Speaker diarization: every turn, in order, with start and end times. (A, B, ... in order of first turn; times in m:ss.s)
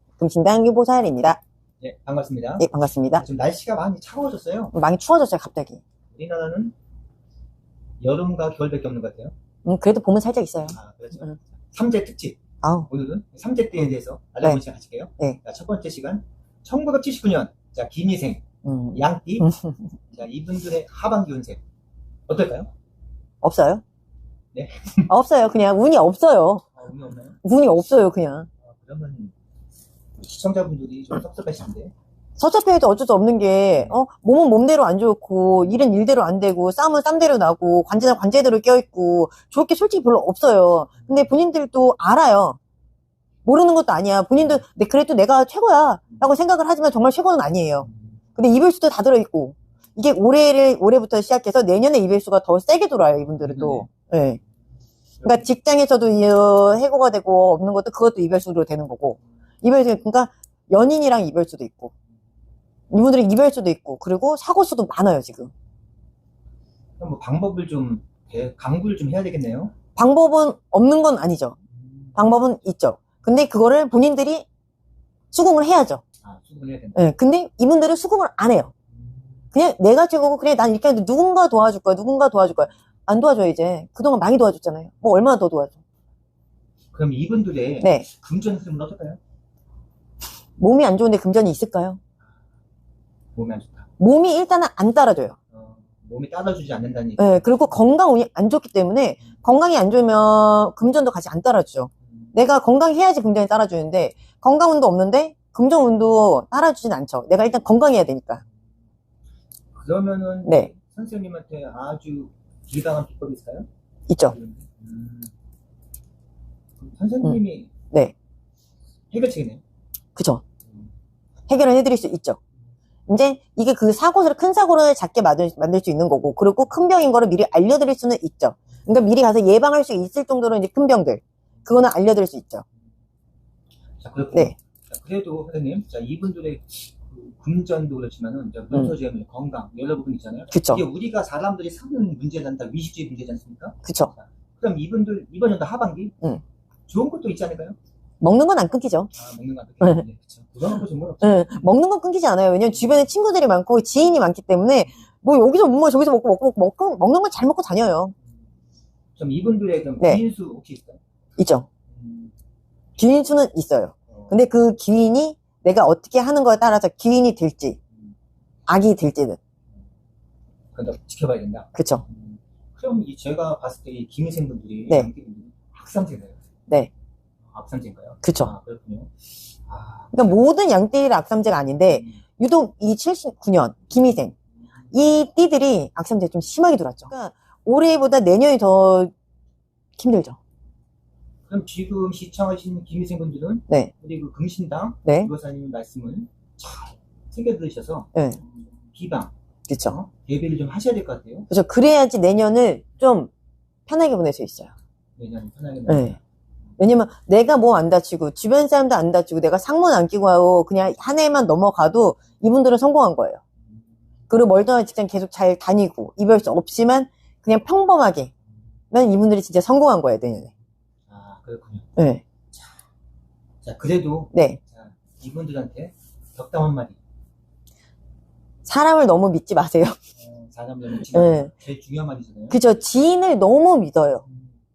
0:00.2-0:01.4 A
0:01.8-0:04.7 B
0:02.6-0:03.2 A
0:04.7-0:05.8 A
0:06.1-0:06.7 B
0:08.0-0:09.3 B
0:09.6-0:11.3 A
0:10.7-0:19.5 B
0:12.6-0:12.9 A
0:18.6-0:19.8 A
0:20.1-0:21.6 B
0:22.3-0:22.7 B
0:23.4-0:23.8 A
0:24.5-0:25.1 B
0:25.1-0:26.7 A
0:26.7-0:27.4 B
0:27.4-0:28.5 A
0:28.6-0:29.3 B
0:30.2-0:31.9 B
0:32.4-0:42.6 A
0:43.4-0:54.4 A
0:47.9-0:48.2 B
0:53.4-0:53.9 B
0:55.2-1:01.9 A
1:02.9-1:05.5 A
1:07.0-1:09.7 B
1:10.0-1:11.6 A
1:11.9-1:12.2 B
1:12.2-1:14.4 A
1:15.3-1:16.0 A
1:16.2-1:17.0 B
1:16.9-1:18.7 A
1:19.5-1:25.8 A
1:26.9-1:29.2 B
1:27.8-1:28.1 A
1:30.6-1:32.0 A
1:33.3-1:33.9 B
1:34.0-1:35.4 A
1:35.5-1:37.7 B
1:37.2-1:48.4 A
1:49.7-1:53.7 B
1:50.4-1:50.7 A
1:54.1-1:54.3 A
1:54.3-1:55.3 B
1:56.8-1:57.7 B
1:59.1-1:59.6 B
2:00.2-2:00.4 A
2:01.5-2:02.4 A
2:03.1-2:12.6 A
2:14.0-2:26.2 B
2:20.5-2:20.8 A
2:23.8-2:24.1 A
2:26.9-2:27.8 B
2:28.2-2:29.1 A
2:29.1-2:31.6 B
2:31.2-2:38.1 A
2:39.2-2:41.0 B
2:41.4-2:41.7 A
2:41.9-2:42.3 B
2:43.0-2:47.8 A
2:44.1-2:44.4 B
2:48.7-2:49.4 A
2:50.7-2:56.4 B
2:51.7-2:52.0 A
2:57.5-2:59.1 B
2:58.2-2:58.5 A
2:59.6-3:00.4 B
3:00.1-3:04.3 A
3:01.9-3:02.2 B
3:04.9-3:09.1 A
3:10.0-3:10.4 A
3:11.5-3:21.5 B
3:15.0-3:15.3 A
3:18.1-3:18.4 A
3:19.7-3:20.0 A
3:21.5-3:23.3 A
3:23.9-3:24.7 A
3:25.2-3:26.2 B
3:25.8-3:26.2 A
3:26.8-3:33.4 A
3:34.3-3:38.3 A
3:38.9-3:40.5 A
3:41.1-3:41.9 B
3:42.0-3:42.2 A
3:43.6-3:47.0 B
3:44.3-3:44.6 A
3:48.6-3:50.0 A
3:50.2-3:52.6 B
3:51.1-3:51.5 A
3:52.5-3:54.2 A